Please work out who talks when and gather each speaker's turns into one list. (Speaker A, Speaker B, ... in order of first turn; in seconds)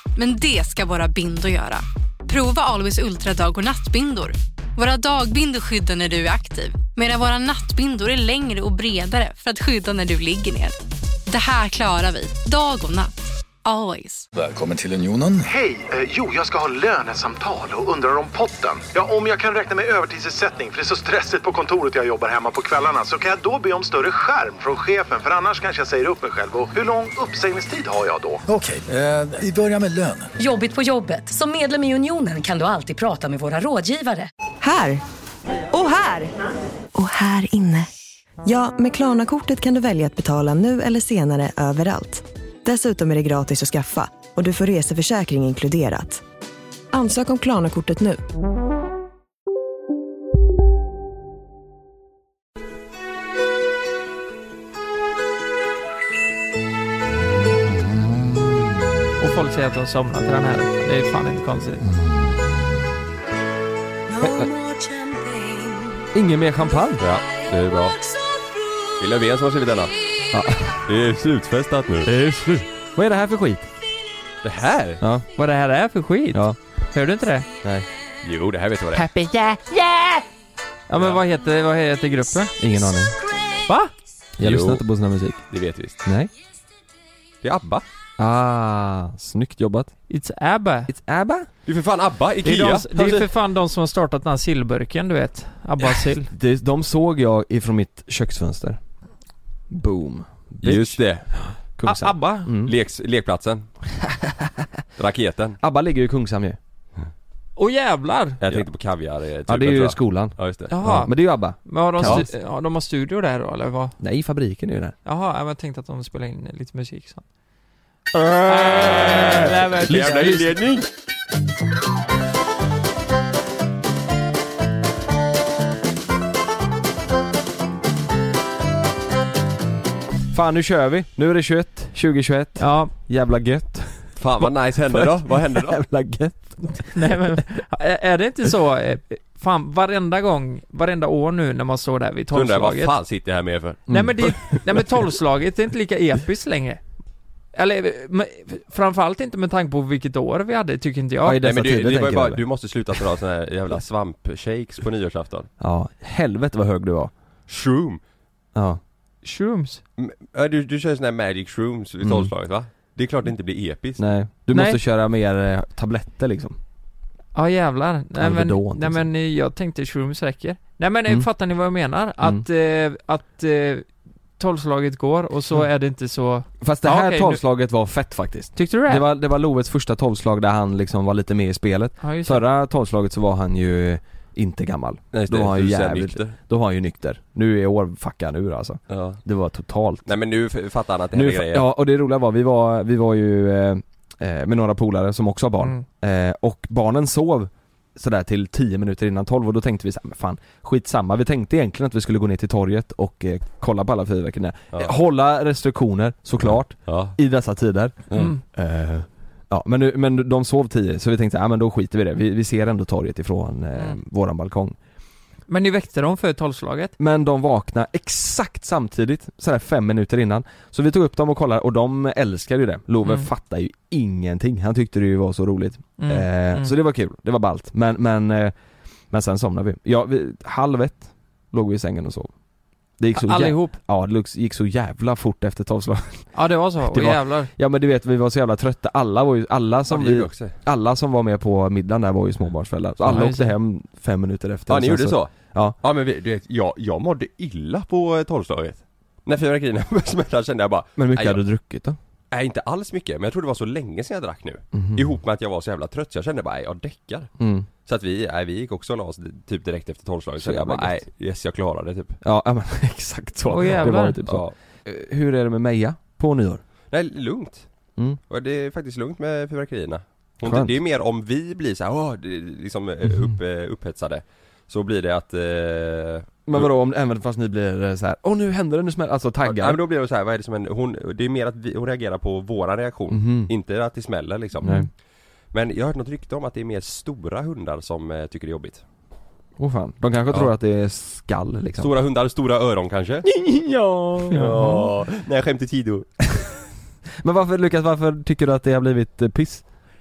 Speaker A: 0.1-10.8, 11.3-13.1, 13.6-14.2
Speaker B: 14.3-15.5, 28.5-30.3
Speaker C: 15.4-28.4
Speaker D: 30.4-34.3
Speaker E: 34.6-35.0, 35.7-36.3, 36.9-37.9, 38.4-46.2, 46.9-48.2
Speaker F: 59.2-61.9, 75.3-77.5, 79.0-80.2, 80.9-82.5, 90.1-90.9, 92.4-96.3, 101.8-102.5, 107.6-108.4, 110.7-113.9, 115.0-117.2, 118.4-120.5, 132.6-132.9, 136.9-142.9, 143.9-146.8, 147.5-151.4, 159.2-159.8, 164.5-164.8, 167.3-173.8, 174.4-177.4, 178.5-179.0, 182.0-182.4, 208.1-208.4, 215.5-216.9, 226.0-226.7, 233.1-233.8, 236.3-237.5, 243.0-243.5, 263.5-264.2, 294.3-294.8
Speaker G: 64.2-64.5, 66.1-67.1, 70.3-70.8, 72.0-73.7, 75.0-75.2, 82.6-83.2, 84.4-85.4, 86.0-86.3, 88.2-89.9, 90.9-91.5, 96.3-98.8, 99.7-102.7, 104.0-104.7, 105.6-106.6, 109.5-112.3, 114.0-115.0, 118.6-120.6, 130.3-137.2, 143.9-144.8, 151.2-152.4, 155.6-157.1, 158.5-158.8, 162.0-162.3, 164.0-166.6, 168.2-169.0, 176.6-190.1, 191.1-214.8, 217.0-228.5, 229.1-232.3, 233.0-245.8, 251.0-252.0, 254.7-255.1, 257.4-257.7, 260.4-261.0, 262.2-266.6, 270.4-270.8, 276.4-279.8, 283.1-283.5, 284.6-284.9, 289.6-291.9, 293.2-294.7, 297.2-299.6
Speaker H: 67.0-68.0, 69.0-69.9, 70.8-72.1, 74.4-75.0, 78.2-79.0, 80.9-81.2, 84.4-84.8, 85.5-86.0, 87.4-87.8, 91.7-93.3, 100.6-101.3, 102.6-103.7, 105.0-105.6, 108.4-110.7, 118.6-120.8, 134.2-135.8, 142.3-143.9, 151.4-155.5, 157.5-158.0, 160.0-164.0, 185.1-186.3, 188.9-189.2, 190.1-191.7, 206.8-207.1, 239.9-240.6, 244.7-251.4, 252.3-257.3, 257.9-262.2, 264.2-264.5, 266.9-267.7, 268.3-276.7, 279.4-284.8, 285.5-288.8, 291.8-293.2, 294.3-296.1